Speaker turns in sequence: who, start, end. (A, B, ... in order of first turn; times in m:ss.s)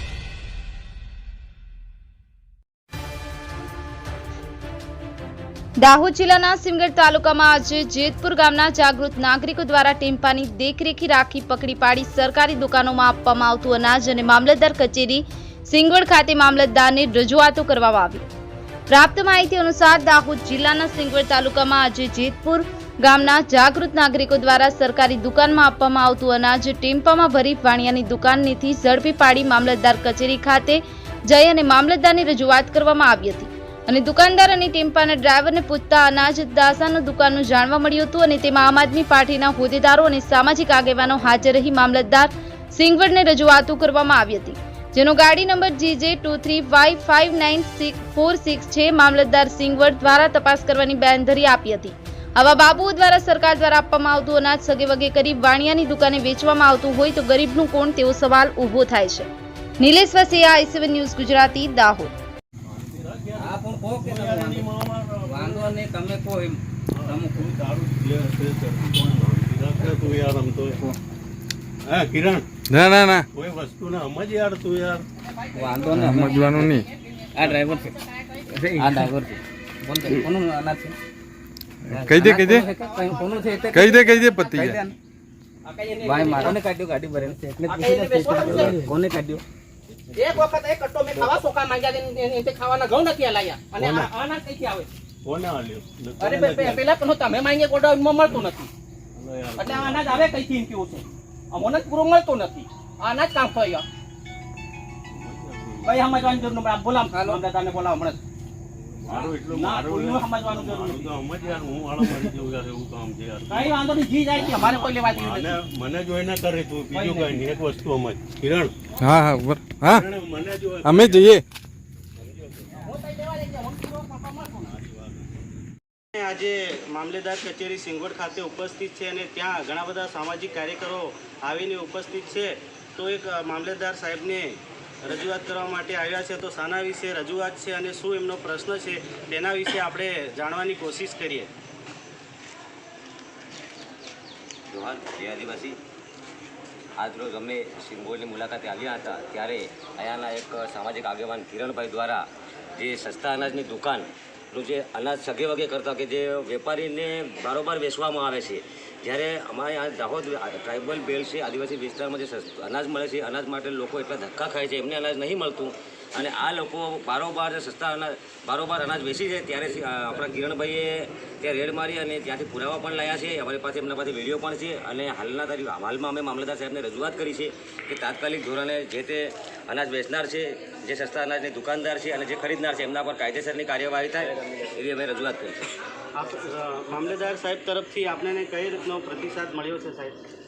0:05.8-0:18.2 A
0:18.9-0:59.3 A
0:59.8-1:02.1 A
1:02.7-1:05.8 B
1:03.4-1:04.7 C
1:05.2-1:07.5 C
1:06.9-1:10.8 B
1:11.8-1:12.5 B
1:12.7-1:13.3 D
1:13.3-1:15.0 B
1:15.3-1:18.4 E
1:15.6-1:16.7 C
1:15.9-1:16.9 D
1:17.3-1:18.0 C
1:18.6-1:21.0 C
1:21.8-1:22.7 D
1:21.9-1:23.8 C
1:22.3-1:24.6 E
1:23.7-1:24.8 D
1:24.4-1:24.9 C
1:25.6-1:26.6 E
1:26.0-1:29.4 C
1:27.6-1:28.9 E
1:28.4-1:28.8 D
1:30.1-1:34.9 E
1:33.8-1:34.1 B
1:35.2-1:36.9 B
1:36.2-1:38.7 E
1:39.1-1:40.4 B
1:39.6-1:43.8 E
1:45.1-1:46.6 B
1:45.8-1:48.2 E
1:47.1-1:47.4 C
1:48.8-1:53.8 B
1:49.1-1:51.2 E
1:53.5-1:55.6 E
1:54.3-1:58.7 B
1:56.9-1:57.4 E
1:59.0-2:00.0 D
1:59.8-2:01.4 B
2:00.8-2:01.4 D
2:02.8-2:04.7 E
2:04.6-2:05.4 B
2:06.1-2:21.5 F
2:24.7-2:25.8 G
2:27.0-2:32.2 G
2:32.8-3:05.6 G
3:06.1-3:10.2 F